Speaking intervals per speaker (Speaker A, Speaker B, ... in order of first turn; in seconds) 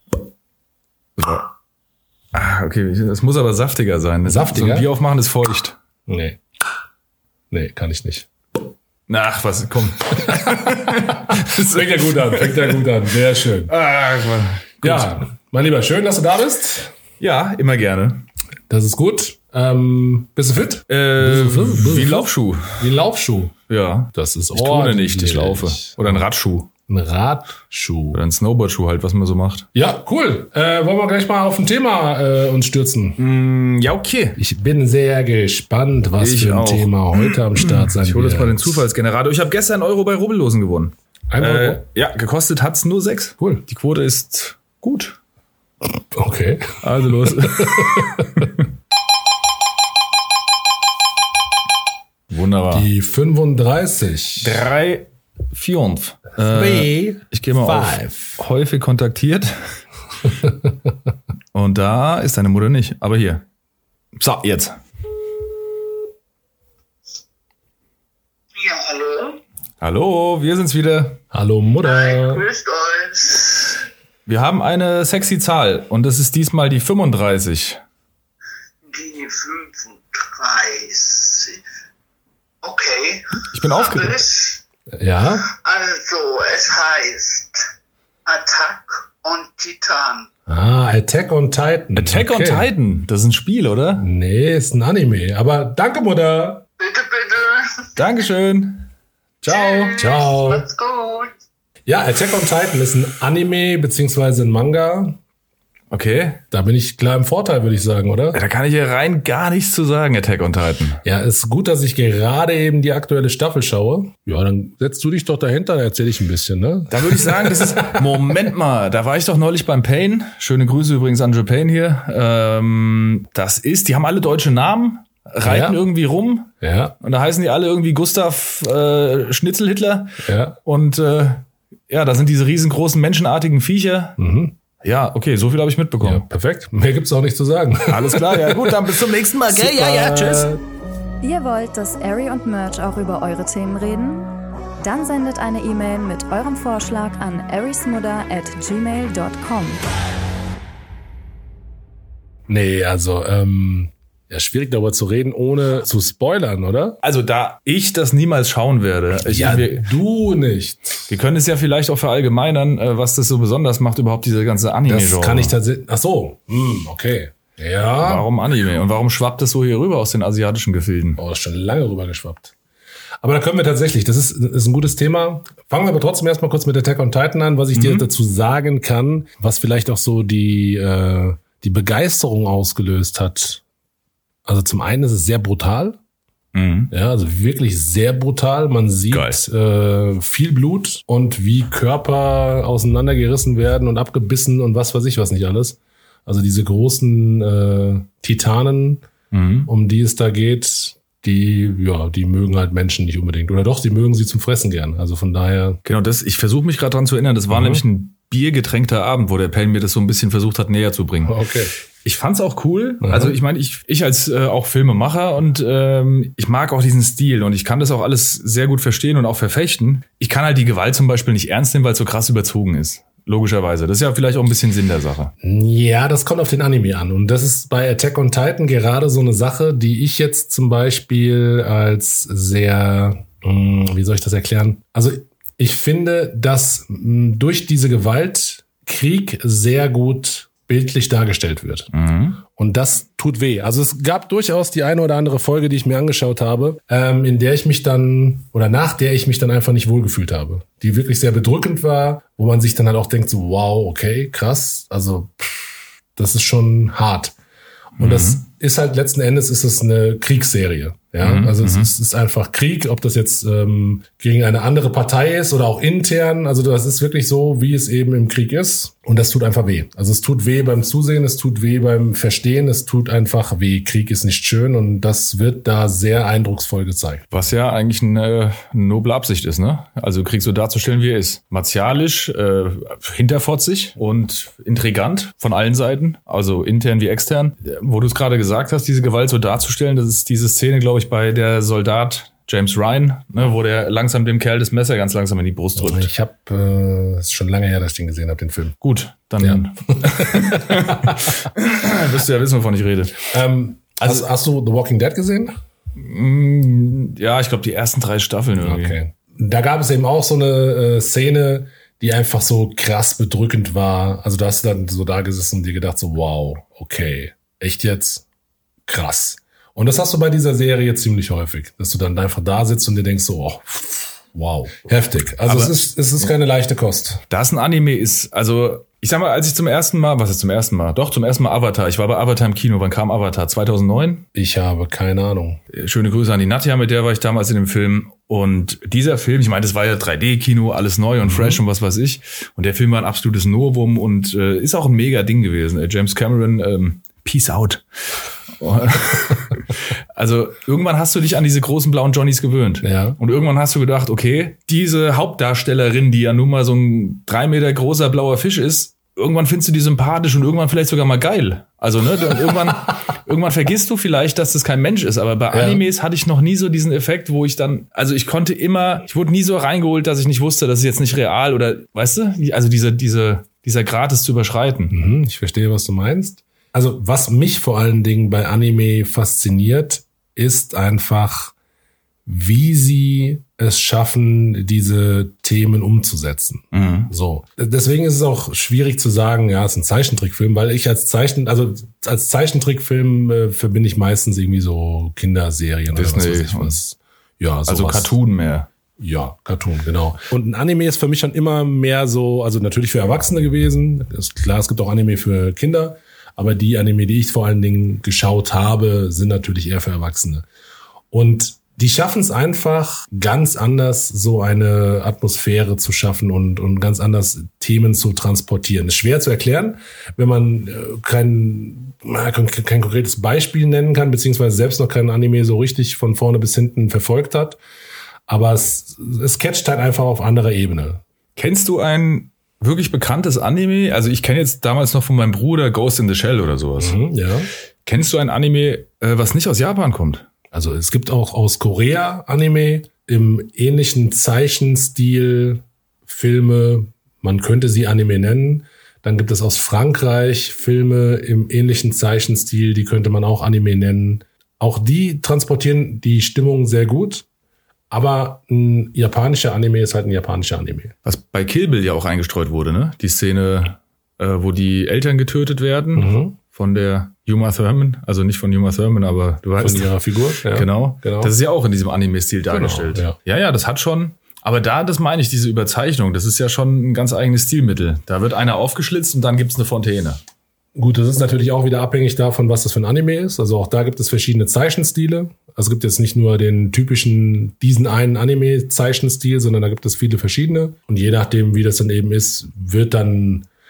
Speaker A: 1.2-1.5, 2.3-5.8, 9.1-12.8, 13.7-15.2, 17.2-18.2, 20.9-22.8, 23.7-26.7, 28.1-29.7, 33.2-34.4, 36.2-45.2, 46.8-48.6, 52.3-52.9, 54.4-59.6, 61.5-63.4, 64.2-64.8, 69.8-71.2, 74.2-77.8, 83.5-84.2, 91.9-94.0, 98.0-98.9, 99.4-99.9, 105.9-106.4, 108.3-111.0, 116.9-134.2, 134.8-136.2, 137.9-140.5, 157.0-159.9, 161.1-165.5, 168.0-171.2, 177.7-178.1, 186.5-186.9, 189.1-189.4, 199.3-199.7, 205.8-211.4, 212.0-225.3, 241.9-242.4, 258.0-258.4, 261.2-261.9, 277.3-296.1, 298.8-303.2, 306.0-309.0, 325.4-325.7, 327.3-334.2, 335.7-347.8, 348.6-374.9, 386.7-387.1, 395.9-396.8, 397.7-398.7, 431.4-437.0, 437.9-440.2, 461.0-469.9, 470.4-480.2
Speaker B: 4.2-4.9, 6.1-6.4, 7.5-8.3, 10.9-13.7, 14.8-16.9, 18.7-23.5, 24.1-26.3, 26.9-28.2, 29.7-33.2, 34.4-38.8, 41.3-41.8, 46.1-48.3, 52.7-54.6, 56.5-58.4, 71.3-72.4, 84.9-85.5, 90.5-92.7, 94.0-96.7, 100.0-100.7, 101.9-105.2, 106.5-108.4, 111.0-118.0, 125.4-125.8, 126.6-126.9, 130.2-130.6, 134.2-134.5, 136.0-138.9, 139.5-140.6, 152.5-157.0, 159.2-161.1, 164.8-168.3, 171.2-172.5, 173.2-183.6, 184.4-186.0, 186.9-199.0, 199.7-205.8, 207.5-207.8, 211.2-211.7, 213.0-213.4, 225.4-241.9, 242.5-257.3, 257.9-277.2, 295.8-298.8, 299.4-301.1, 303.3-305.5, 308.6-318.2, 318.9-327.2, 334.3-335.6, 341.2-341.6, 352.8-353.2, 365.5-365.8, 374.9-381.5, 382.2-398.1, 399.0-410.4, 411.1-427.6, 428.3-431.0, 436.8-437.5, 440.5-457.2, 457.9-460.9, 465.9-466.4, 469.6-471.3, 472.5-473.1, 480.8-493.5
Speaker C: 68.5-69.4, 71.8-73.8, 78.9-81.6, 82.6-84.6, 85.5-87.6, 88.2-90.3, 96.8-97.9, 99.5-101.3
Speaker D: 141.2-149.8